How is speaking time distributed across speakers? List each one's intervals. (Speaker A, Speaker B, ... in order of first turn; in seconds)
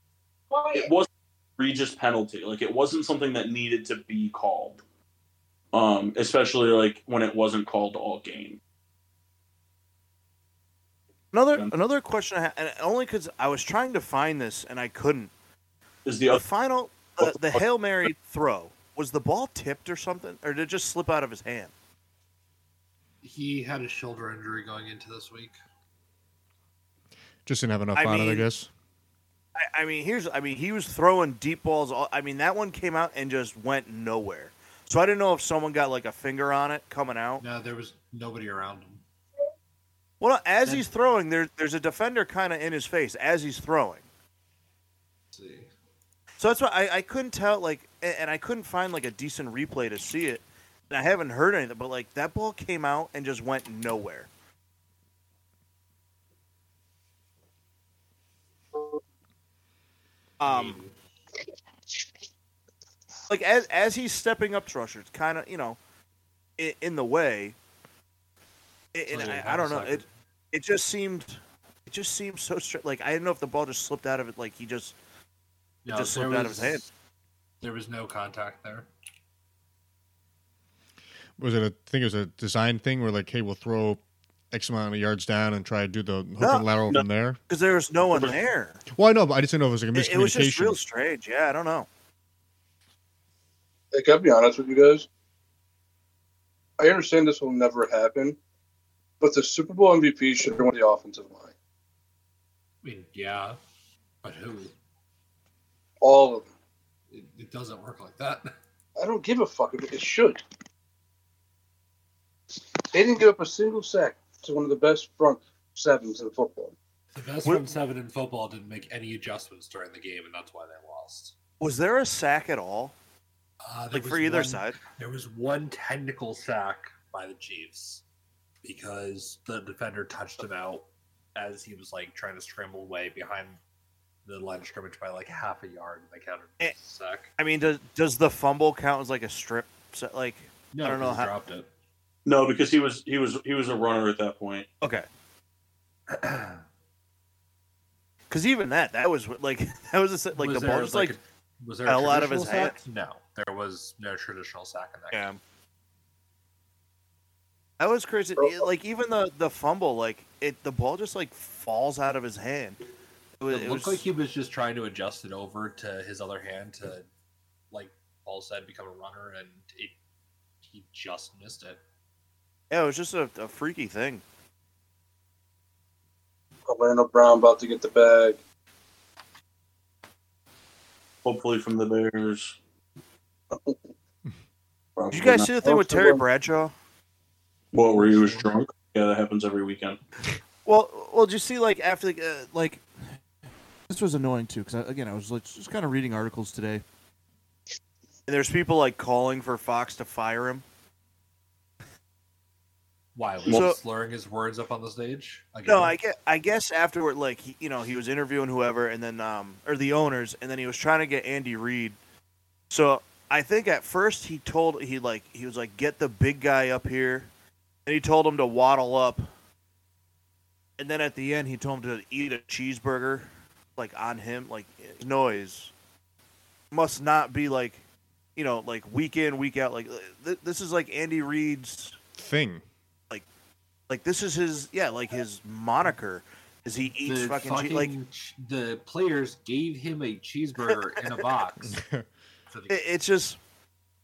Speaker A: 0.7-4.8, 5.7-8.6, 16.1-16.4, 17.2-17.6, 142.2-144.7, 181.2-182.6, 185.0-185.5, 187.7-190.0
Speaker B: 11.3-15.3, 16.3-21.7, 28.0-28.5, 29.6-37.4, 40.2-44.0, 46.4-54.3, 60.4-60.8, 63.3-65.8, 66.6-67.6, 68.9-75.0, 75.9-76.9, 86.4-86.7, 87.5-88.8, 90.0-91.9, 121.6-123.0, 123.9-124.8, 137.4-141.3, 144.8-145.1, 148.3-151.2, 151.9-152.8, 155.1-155.4, 157.8-162.8, 163.4-164.1, 172.7-174.2, 185.1-186.7, 190.7-193.2, 193.9-196.8, 198.3-200.7, 203.5-203.8, 205.7-212.0, 212.7-217.3, 217.9-219.3, 220.8-225.7, 226.7-227.8, 228.4-232.0, 233.9-237.9, 242.7-243.4
Speaker C: 23.2-25.5, 37.4-39.0, 45.3-45.7, 60.5-60.9, 69.1-70.1, 75.8-76.9, 77.6-78.9, 102.8-103.6, 104.2-104.7, 107.1-108.5, 117.2-121.3, 123.6-128.0, 128.6-133.6, 134.2-137.3, 140.7-141.7, 146.1-146.6, 150.3-155.3, 163.5-167.1, 167.7-170.0, 170.7-171.8, 188.0-188.5, 203.2-205.9, 237.1-241.8, 242.5-242.8
Speaker D: 27.5-28.7, 81.4-87.4, 88.9-90.8, 232.2-232.6, 241.7-242.1
Speaker E: 93.9-95.1, 96.8-98.4, 99.2-101.5, 106.0-106.5, 109.0-110.4, 112.5-116.8, 158.4-158.7, 176.7-178.4, 185.6-186.2